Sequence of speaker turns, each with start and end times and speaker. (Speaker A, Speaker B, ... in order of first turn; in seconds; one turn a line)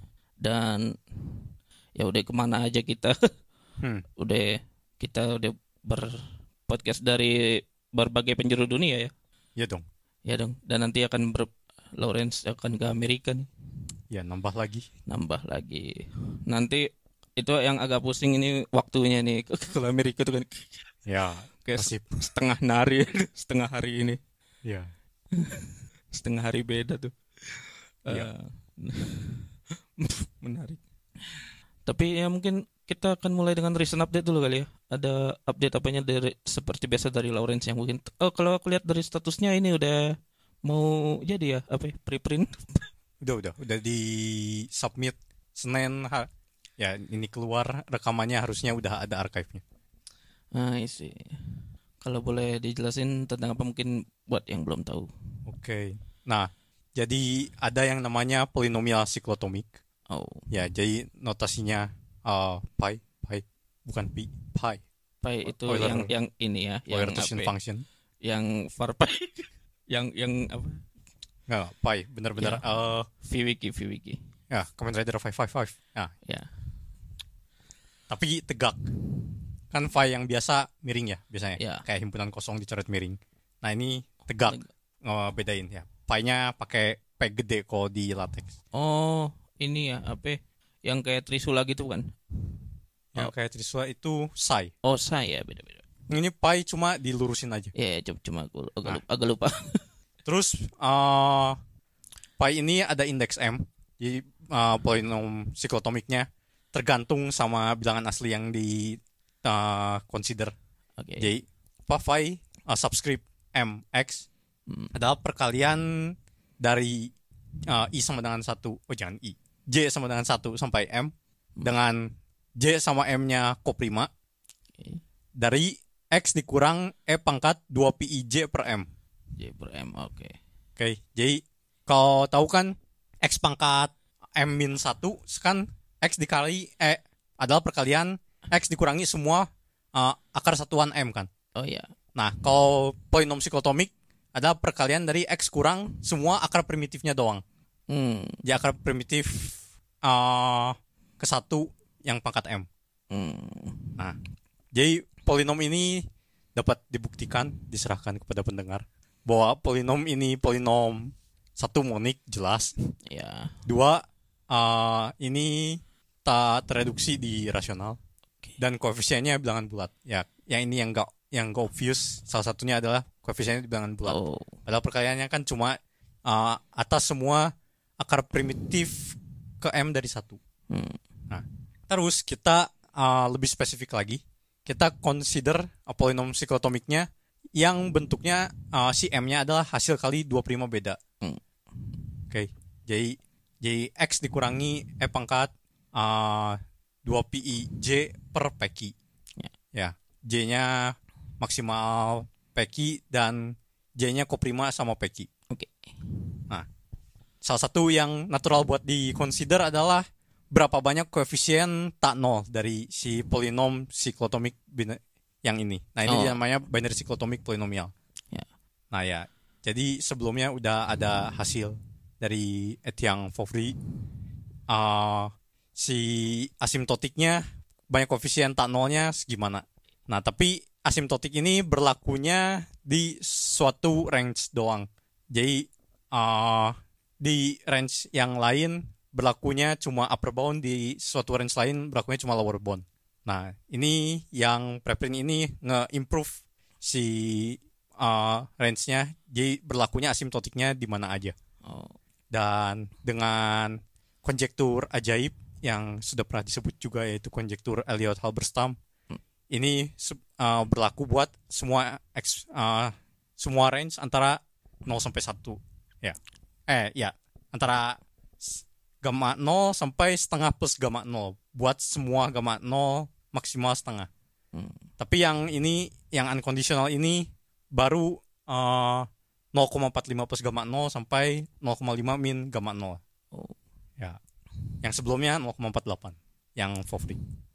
Speaker A: 0.4-1.4
Speaker A: 2.0-3.2
Speaker A: 4.2-9.1
Speaker B: 9.6-9.8
Speaker A: 10.3-13.5
Speaker B: 14.1-14.9
Speaker A: 15.1-20.8
Speaker B: 21.1-22.1
Speaker A: 21.6-24.2
Speaker B: 24.6-24.9
Speaker A: 25.3-27.1
Speaker A: 28.1-29.5
Speaker A: 30.0-30.8
Speaker A: 31.3-42.8
Speaker B: 43.2-49.6
Speaker A: 50.5-55.1
Speaker B: 55.5-59.7
Speaker A: 60.1-60.5
Speaker B: 60.5-64.8
Speaker A: 65.2-67.5
Speaker B: 65.6-66.1
Speaker B: 66.9-67.8
Speaker A: 68.2-70.8
Speaker B: 71.5-73.1
Speaker A: 72.4-72.6
Speaker A: 73.2-74.2
Speaker B: 74.5-76.1
Speaker B: 78.1-78.8
Speaker B: 79.7-88.5
Speaker A: 81.6-81.8
Speaker A: 88.7-92.1
Speaker B: 93.2-94.7
Speaker A: 94.8-95.8
Speaker B: 96.1-97.7
Speaker A: 97.8-99.8
Speaker B: 100.2-101.6
Speaker B: 102.4-110.5
Speaker A: 111.0-111.3
Speaker B: 111.2-114.3
Speaker A: 114.7-115.0
Speaker B: 114.9-117.1
Speaker B: 117.7-121.1
Speaker B: 121.6-124.1
Speaker B: 125.4-128.9
Speaker A: 129.4-130.4
Speaker B: 130.8-141.3
Speaker A: 141.6-141.9
Speaker B: 142.2-147.4
Speaker A: 147.9-148.4
Speaker B: 148.4-152.7
Speaker A: 153.1-154.0
Speaker B: 154.7-162.7
Speaker A: 163.1-163.5
Speaker B: 163.7-168.0
Speaker B: 168.6-180.4
Speaker A: 174.1-174.6
Speaker A: 180.7-181.0
Speaker B: 181.3-191.0
Speaker B: 192.3-198.9
Speaker B: 199.7-205.3
Speaker A: 205.5-205.9
Speaker B: 207.4-217.9
Speaker A: 216.1-216.4
Speaker B: 218.9-223.8
Speaker B: 224.7-251.3
Speaker A: 251.6-252.0
Speaker B: 252.3-258.8
Speaker B: 259.5-274.1
Speaker B: 275.0-283.0
Speaker B: 284.8-287.2